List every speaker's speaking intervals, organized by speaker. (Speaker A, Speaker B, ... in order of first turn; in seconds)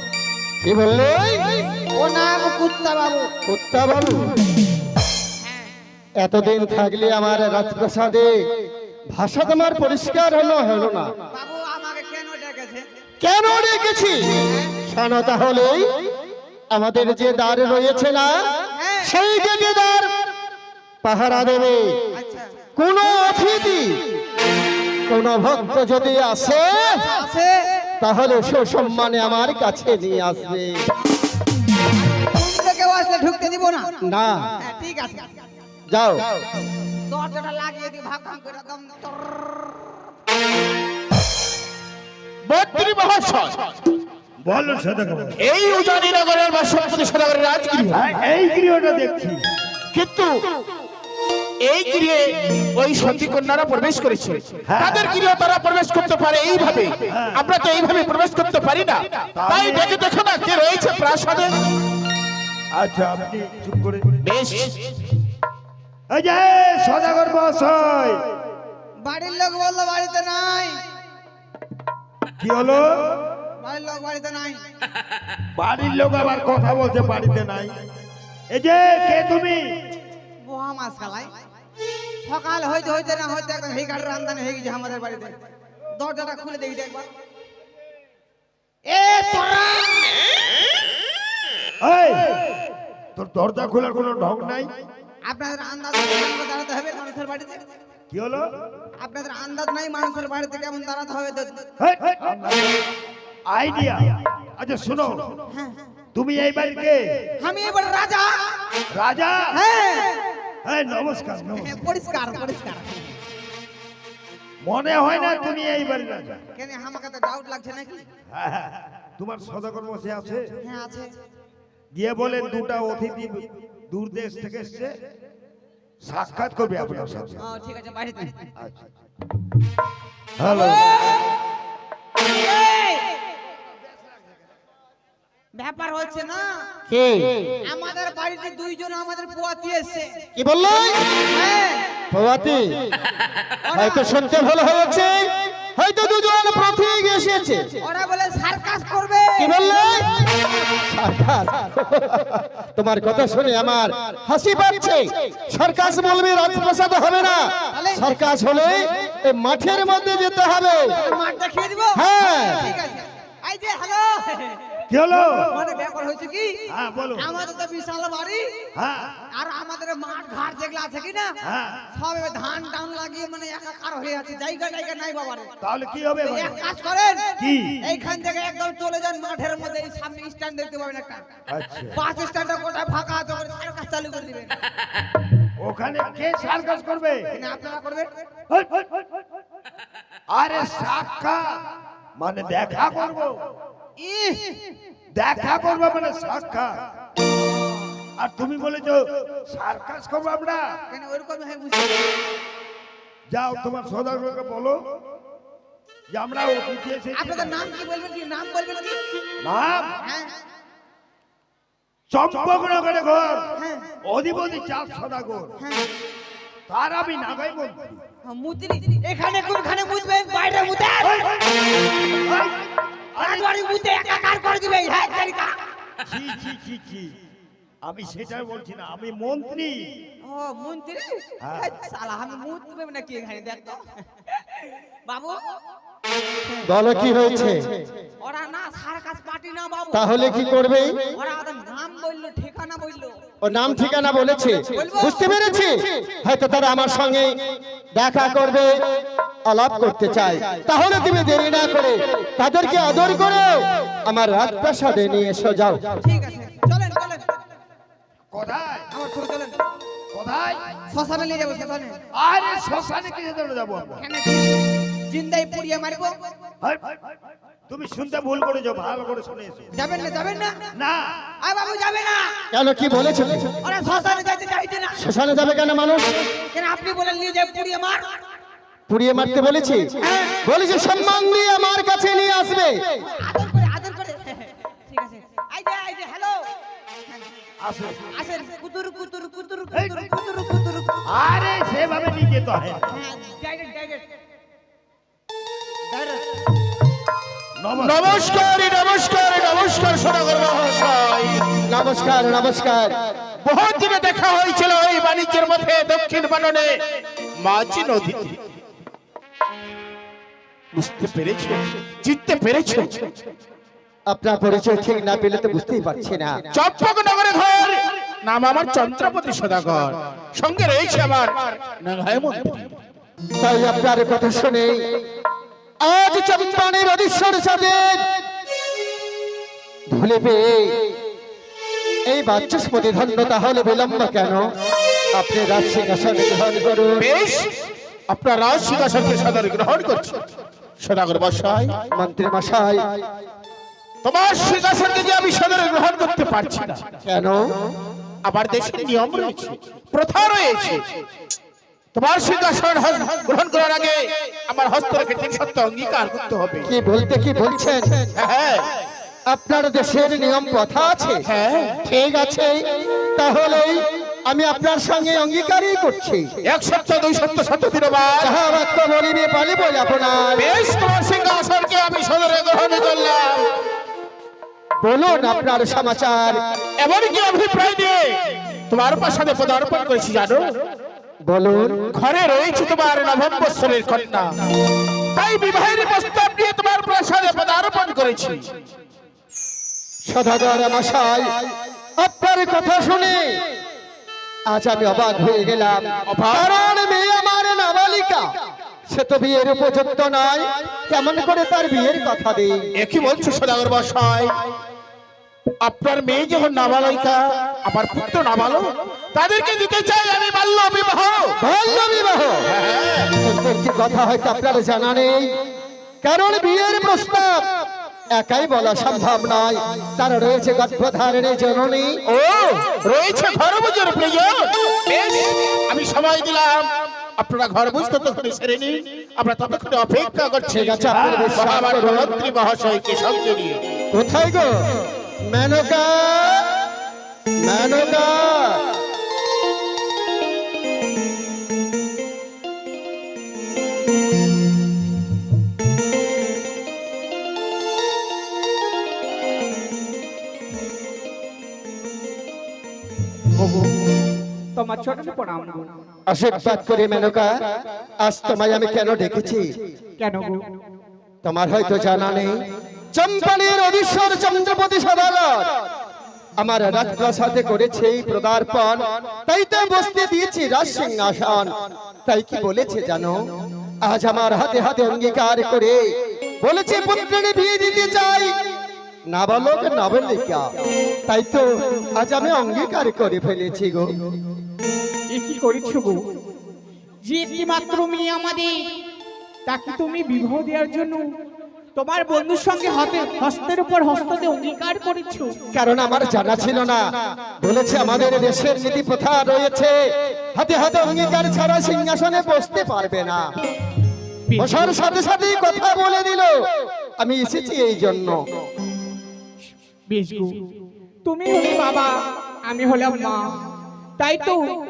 Speaker A: 0.6-1.7, 3.5-4.4, 6.2-8.3, 9.1-11.1, 13.2-15.9, 16.7-18.4, 19.0-20.1, 21.0-21.8, 22.8-24.0, 25.1-27.1, 28.0-30.8, 34.0-34.4, 35.9-36.2, 136.9-137.4, 140.4-141.0, 142.1-142.9, 143.7-145.2, 145.8-147.6, 149.4-161.0, 161.9-162.7, 236.6-237.7, 239.9-240.9, 243.4-247.4, 248.0-248.7, 249.5-256.0, 272.5-273.6, 275.0-276.2, 278.9-279.9, 280.4-282.8, 301.7-302.9, 314.1-316.4, 323.4-325.0, 325.8-328.1, 329.9-330.8, 332.1-334.4, 335.1-337.1, 341.9-342.8, 347.1-347.5, 356.7-358.1, 359.3-361.2, 361.9-366.3, 368.2-370.5, 374.8-376.4, 381.3-381.9, 390.1-391.4, 392.0-393.4, 394.5-398.3, 398.9-402.6, 411.4-412.5, 413.1-415.3, 416.0-417.5, 418.2-422.7, 430.5-432.2, 433.9-434.5, 435.3-436.6, 437.4-438.7, 456.1-457.4, 458.0-459.6, 461.2-465.6, 466.4-471.5, 472.1-473.2, 473.9-475.8, 476.4-478.3, 479.1-480.5, 481.1-484.0, 495.5-499.8, 500.4-503.3, 504.4-508.2
Speaker B: 1.9-3.3, 11.3-12.9, 14.5-14.7, 18.8-19.1, 22.2-22.6, 26.8-27.5, 31.9-34.0, 34.6-35.3, 37.1-39.9, 69.0-70.8, 73.6-74.6, 80.4-81.3, 82.2-85.3, 86.0-87.1, 88.9-90.2, 95.3-97.7, 99.0-101.7, 105.5-105.8, 107.4-108.6, 109.5-110.3, 111.6-113.2, 116.5-118.1, 120.6-121.2, 127.4-128.5, 130.4-131.2, 132.2-133.2, 135.6-136.6, 137.7-140.2, 141.3-141.9, 143.7-144.2, 147.8-149.5, 157.7-158.0, 161.0-164.7, 165.5-166.6, 167.2-168.6, 169.3-171.3, 171.9-175.5, 176.2-181.3, 182.0-184.6, 187.3-188.1, 194.0-194.7, 200.9-202.2, 207.1-209.0, 210.0-210.3, 213.6-213.9, 215.6-215.9, 218.2-221.3, 223.2-225.6, 230.2-233.8, 235.1-235.5, 238.2-240.2, 241.2-243.1, 244.7-245.2, 256.0-257.4, 258.9-259.6, 260.9-262.0, 264.0-266.3, 269.8-270.6, 271.4-272.3, 273.6-275.0, 276.5-278.1, 280.0-280.4, 283.2-286.5, 288.1-291.2, 292.9-294.1
Speaker C: 42.5-43.8, 45.4-48.1, 49.9-50.4, 51.6-61.7, 64.2-64.9, 297.8-301.4, 303.4-306.8, 307.4-308.4, 310.7-313.1, 316.5-322.7, 337.0-337.5, 338.1-340.2, 340.8-341.8, 344.0-346.8, 348.2-350.8, 351.9-356.7, 358.2-358.7, 361.2-361.8, 366.5-368.4, 370.4-373.5, 376.8-380.4, 381.9-384.3, 385.1-388.4, 396.1-396.5, 402.8-404.4, 405.6-411.4, 412.5-413.1, 422.8-433.6
Speaker D: 44.5-45.4, 47.9-49.4, 54.7-55.1, 57.1-57.4, 59.4-59.9, 62.7-64.1, 66.1-68.2, 72.4-73.2, 75.6-77.7, 78.5-79.6, 91.8-92.5, 93.2-94.7, 98.1-98.5, 101.8-102.8, 103.5-105.4, 106.2-107.0, 108.9-109.6, 110.7-111.8, 114.6-116.4, 118.3-120.6, 121.9-124.9, 126.0-127.4, 128.6-128.9, 130.4-131.0, 164.9-165.6, 166.7-167.3, 168.8-169.2, 171.4-171.8, 175.6-176.6, 177.4-177.8, 181.5-182.0, 185.6-187.2, 188.5-189.0, 190.3-191.4, 192.2-193.3, 195.2-196.8, 198.2-200.7, 203.3-204.8, 206.1-207.6, 209.4-210.0, 212.1-213.5, 214.1-215.6, 216.7-218.0, 221.1-221.4, 222.2-222.6, 223.2-223.5, 226.1-227.1, 227.8-229.8, 231.4-231.7, 258.3-258.9, 260.1-260.6, 262.2-264.0, 266.6-267.0, 267.7-269.7, 270.8-271.0, 287.6-288.0, 289.7-290.1, 291.1-293.0, 297.6-298.4
Speaker E: 453.4-453.8, 454.6-455.7, 460.0-460.4, 485.1-486.0, 487.1-488.6, 489.5-491.0, 491.8-495.4, 504.3-504.7, 509.9-510.4, 511.1-511.9, 512.5-513.3, 514.0-514.4